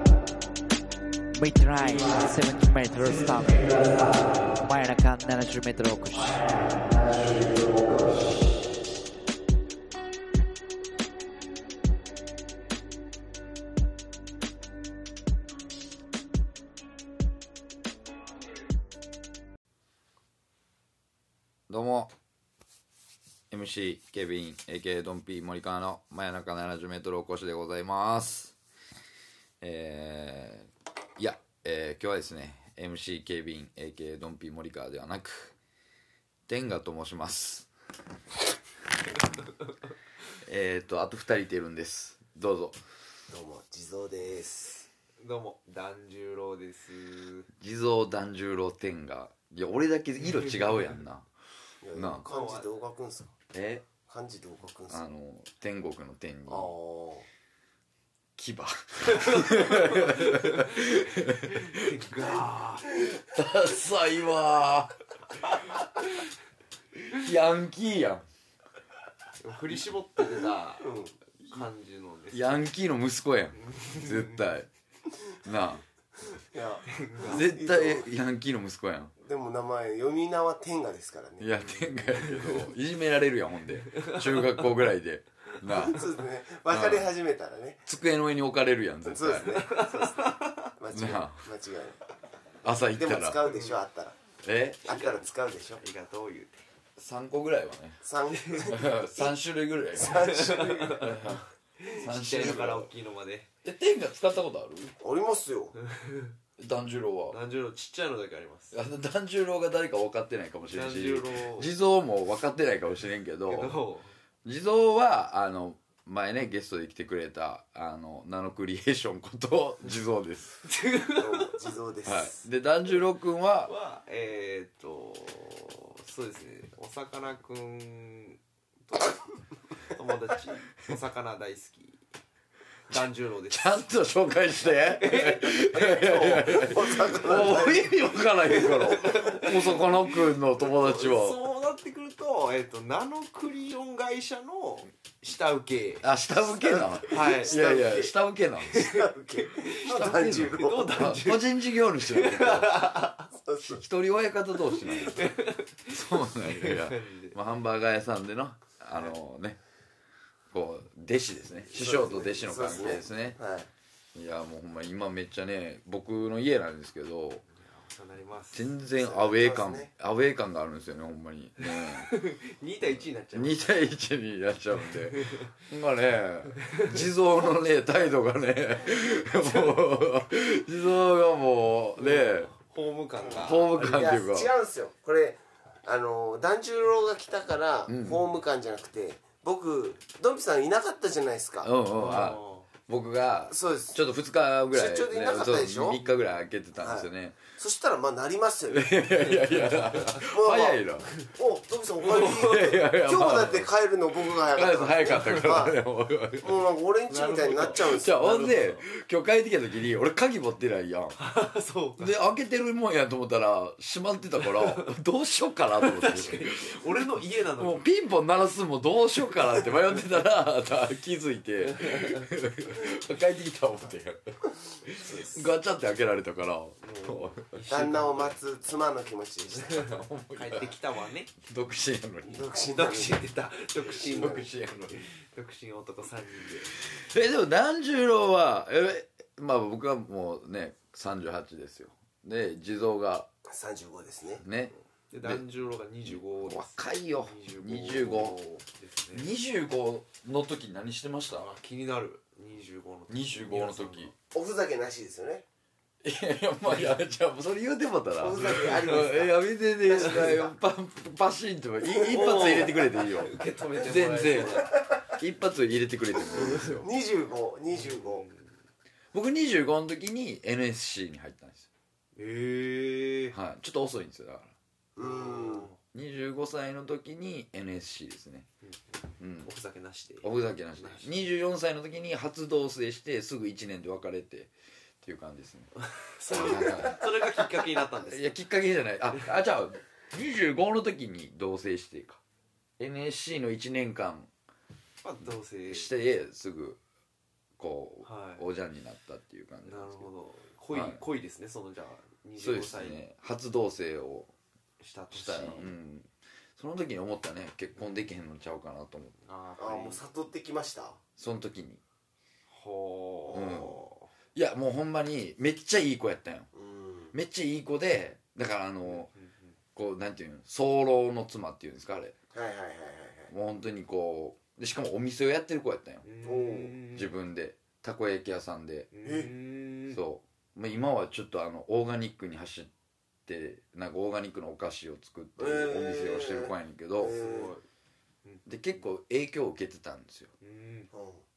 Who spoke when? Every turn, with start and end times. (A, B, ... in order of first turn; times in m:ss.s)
0:01.3-0:06.7 A
0:07.5-0:08.0 B
0:21.7-0:22.1 C
0:23.5-0:28.5 C
0:29.6-0:35.6 C
0:36.5-0:37.7 C
0:40.4-0:42.8 C
0:43.3-0:44.9 B
0:45.2-0:47.5 D
0:47.6-0:51.3 C
0:50.2-0:50.9 D
0:51.8-0:53.3 B
0:51.9-0:52.3 C
0:52.2-0:52.7 D
0:53.5-0:53.9 C
0:54.0-0:55.0 B
0:54.9-0:56.8 C
0:56.5-0:57.3 B
0:58.4-1:01.8 C
0:59.2-1:02.9 D
1:03.3-1:04.9 C
1:07.2-1:08.2 C
1:09.4-1:12.7 D
1:10.8-1:11.1 B
1:12.3-1:14.7 C
1:13.6-1:14.4 D
1:15.4-1:15.8 C
1:16.4-1:18.1 B
1:17.0-1:17.4 D
1:17.2-1:19.1 C
1:19.2-1:21.9 B
1:21.4-1:26.1 C
1:22.3-1:22.6 D
1:23.9-1:24.4 D
1:25.7-1:27.8 B
1:26.7-1:27.1 C
1:27.9-1:29.5 C
1:29.0-1:32.0 B
1:29.4-1:30.7 D
1:30.9-1:31.4 C
1:32.6-1:33.4 C
1:33.0-1:34.2 B
1:33.5-1:33.8 D
1:34.4-1:35.0 C
1:34.9-1:35.8 B
1:34.9-1:35.2 D
1:35.8-1:36.6 D
1:37.0-1:38.0 C
1:38.0-1:39.4 B
1:38.3-1:38.8 D
1:38.7-1:40.4 C
1:39.9-1:41.4 B
1:40.0-1:43.5 D
1:41.0-1:42.9 C
1:43.6-1:45.0 C
1:45.0-1:45.8 B
1:45.8-1:46.4 D
1:46.6-1:47.4 C
1:47.3-1:48.8 D
1:48.7-1:53.8 C
1:50.7-1:51.7 D
1:53.5-1:54.1 D
1:54.4-2:00.6 C
2:00.6-2:01.5 D
2:01.2-2:02.4 B
2:02.0-2:03.7 C
2:03.7-2:09.2 D
2:09.8-2:12.0 D
2:12.9-2:13.9 D
2:13.5-2:21.4 C
2:14.7-2:16.5 D
2:15.7-2:18.0 B
2:17.2-2:26.0 D
2:26.0-2:28.9 C
2:26.5-2:28.1 B
2:27.1-2:27.7 D
2:28.7-2:29.9 D
2:28.7-2:31.1 B
2:29.9-2:32.9 C
2:30.5-2:33.3 D
2:33.3-2:33.8 B
2:33.6-2:35.2 C
2:35.0-2:37.4 D
2:35.9-2:39.6 C
2:40.5-2:43.4 C
2:41.8-2:43.7 B
2:44.2-2:47.4 C
2:47.5-2:48.7 D
2:48.5-2:52.1 C
2:48.9-2:49.9 B
2:51.6-2:53.7 D
2:53.3-3:02.5 C
2:54.8-2:55.6 D
2:56.7-2:57.0 D
3:02.0-3:03.8 D
3:03.4-3:04.5 C
3:03.8-3:12.2 B
3:07.9-3:08.2 C
3:11.6-3:17.4 C
3:11.9-3:12.7 D
3:13.5-3:14.0 B
3:14.7-3:16.0 B
3:16.8-3:19.0 B
3:18.7-3:21.1 C
3:19.2-3:20.2 D
3:20.3-3:25.8 B
3:22.0-3:22.7 D
3:22.1-3:26.6 C
3:26.4-3:28.5 B
3:27.1-3:28.9 D
3:27.9-3:31.2 C
3:31.2-3:32.1 D
3:32.0-3:36.8 C
3:34.4-3:34.9 D
3:35.8-3:37.8 D
3:37.6-3:44.2 C
3:41.7-3:42.3 D
3:44.8-3:47.6 C
3:45.0-3:45.5 B
3:46.8-3:48.4 D
3:47.7-3:50.0 B
3:49.8-3:50.7 C
3:50.3-3:51.3 D
3:51.4-3:52.4 C
3:52.2-3:53.2 B
3:52.7-3:56.8 D
3:53.8-3:54.4 B
3:54.0-3:55.1 C
3:56.9-4:03.3 C
4:03.5-4:04.4 B
4:04.4-4:05.4 C
4:05.1-4:09.3 D
4:06.1-4:08.4 C
4:09.1-4:11.5 C
4:11.3-4:14.1 D
4:13.1-4:14.1 C
4:14.3-4:15.4 B
4:16.0-4:26.9 C
4:16.6-4:17.0 D
4:18.2-4:20.5 B
4:21.9-4:22.7 B
4:22.1-4:24.7 D
4:26.2-4:28.3 B
4:27.7-4:28.5 D
4:29.1-4:31.7 C
4:32.2-4:33.4 D
4:33.3-4:34.5 C
4:35.0-4:35.7 B
4:35.0-4:35.8 D
4:35.9-4:38.5 C
4:39.2-4:39.5 C
4:39.4-4:41.3 D
4:40.2-4:44.5 C
4:45.0-4:45.7 C
4:46.0-4:48.3 D
4:46.3-4:47.0 C
4:48.1-4:52.2 C
4:52.8-4:54.3 C
4:55.0-4:55.9 D
4:55.2-4:56.8 C
4:57.6-5:00.1 C
4:58.0-4:58.4 D
4:59.6-5:03.0 D
5:00.7-5:01.0 C
5:02.4-5:04.3 C
5:04.8-5:05.7 D
5:05.1-5:09.2 C
5:09.2-5:10.0 D
5:09.6-5:11.0 B
5:11.2-5:11.8 C
5:12.5-5:14.1 D
5:13.3-5:13.8 C
5:14.4-5:16.5 C
5:16.5-5:17.1 B
5:17.1-5:19.1 C
5:18.8-5:19.5 D
5:19.8-5:22.2 C
5:22.3-5:23.3 B
5:23.3-5:26.0 C
5:26.0-5:27.1 D
5:26.2-5:26.7 B
5:26.9-5:28.9 C
5:28.9-5:30.0 D
5:29.0-5:29.3 B
5:29.9-5:32.7 C
5:33.3-5:37.2 C
5:35.4-5:37.6 B
5:37.1-5:37.6 D
5:38.2-5:38.8 D
5:38.5-5:40.3 C
5:40.4-5:40.9 D
5:40.9-5:41.2 B